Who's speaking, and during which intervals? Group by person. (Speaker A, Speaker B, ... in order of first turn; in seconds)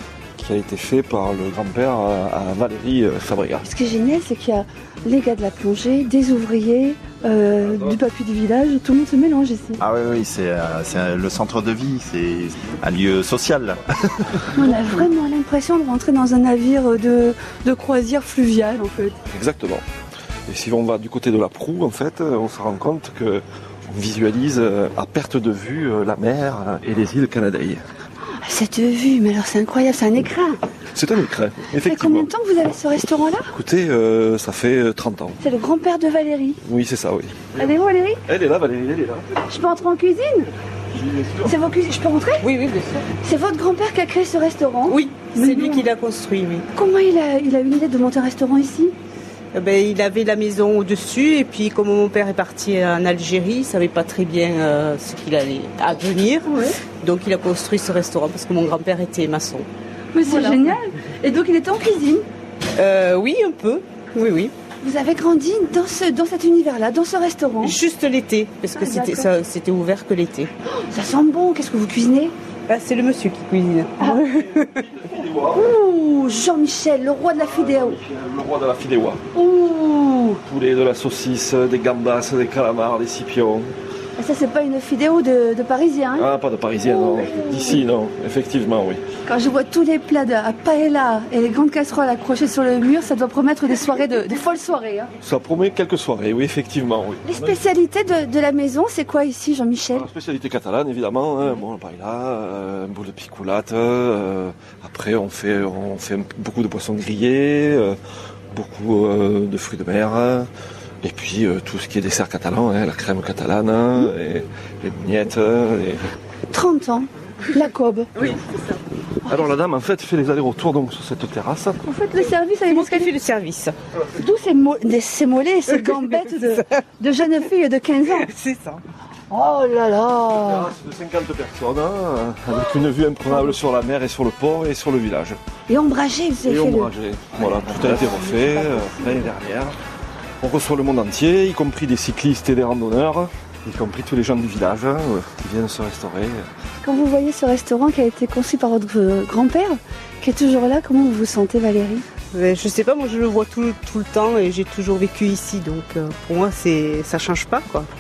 Speaker A: 0.4-3.7, 19.3-19.8, 20.5-27.8, 30.9-32.3, 33.5-35.4, 36.6-37.8, 38.3-39.4, 40.9-41.5, 74.4-75.7, 77.4-79.2, 80.5-83.7, 86.2-89.0, 95.2-97.6, 99.9-108.0, 108.5-110.5, 111.0-116.0, 119.3-121.8, 130.4-135.4, 136.4-139.8, 140.4-146.4
Speaker B: 3.6-9.8, 14.5-19.2, 28.4-30.6, 31.8-33.5, 35.4-36.6, 37.6-38.2, 39.5-40.5, 41.5-42.5, 43.2-45.8, 46.7-48.9, 56.5-56.8, 60.1-62.2, 64.8-67.8, 68.8-69.3, 70.7-72.3, 75.5-78.0, 79.3-80.4, 84.2-86.3, 86.8-87.8, 89.3-95.1, 97.2-100.1, 116.5-118.1, 121.8-123.1, 124.1-128.3, 129.3-130.7, 135.7-139.3, 146.8-152.1
Speaker C: 9.8-14.5
Speaker D: 42.4-43.1, 44.9-46.7, 49.5-59.7, 60.2-60.7, 62.8-64.5, 67.6-70.5, 72.7-74.8, 118.2-118.8, 122.3-123.8, 125.9-126.8, 128.1-128.8, 152.3-157.9